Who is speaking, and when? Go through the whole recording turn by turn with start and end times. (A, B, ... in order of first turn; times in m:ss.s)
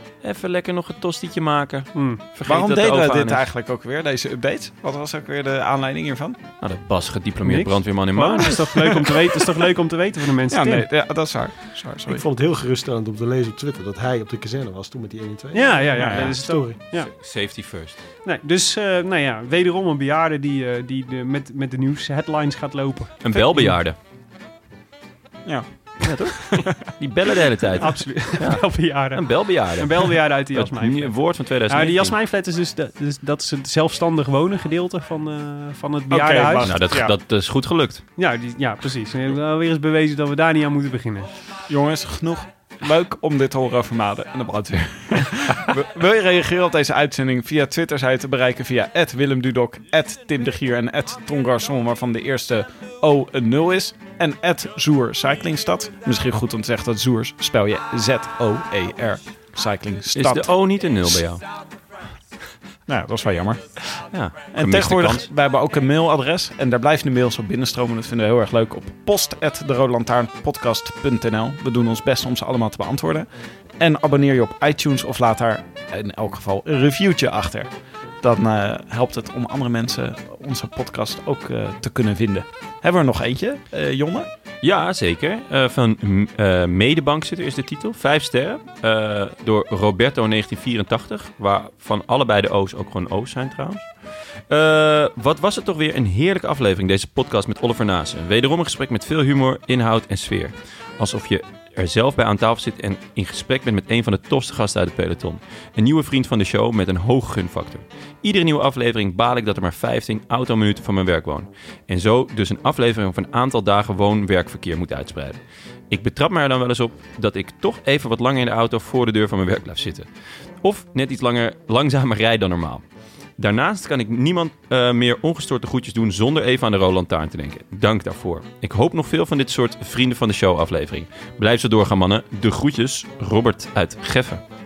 0:00.2-0:03.4 A
0:01.9-0:02.2 B
0:02.4-0:06.4 C
0:06.6-0:08.8 A
0:07.4-0:10.9 B
0:10.5-0:12.2 C
0:12.1-0:16.8 D
0:15.5-0:17.1 B
0:15.9-0:16.4 C
0:16.8-0:18.0 A
0:18.2-0:23.8 B
0:23.2-0:24.0 A
0:25.4-0:26.8 C
0:26.0-0:32.1 A
0:27.8-0:36.7 B
0:36.1-0:37.2 C
0:36.6-0:38.0 A
0:38.2-0:41.3 B
0:41.7-1:00.5 C
1:00.1-1:01.4 A
1:02.9-1:03.6 C
1:04.1-1:05.3 A
1:04.5-1:13.3 C
1:13.8-1:17.7 C
1:18.2-1:24.3 C
1:24.6-1:33.9 A
1:34.5-2:00.1 A
2:00.6-2:02.8 A
2:03.4-2:14.4 A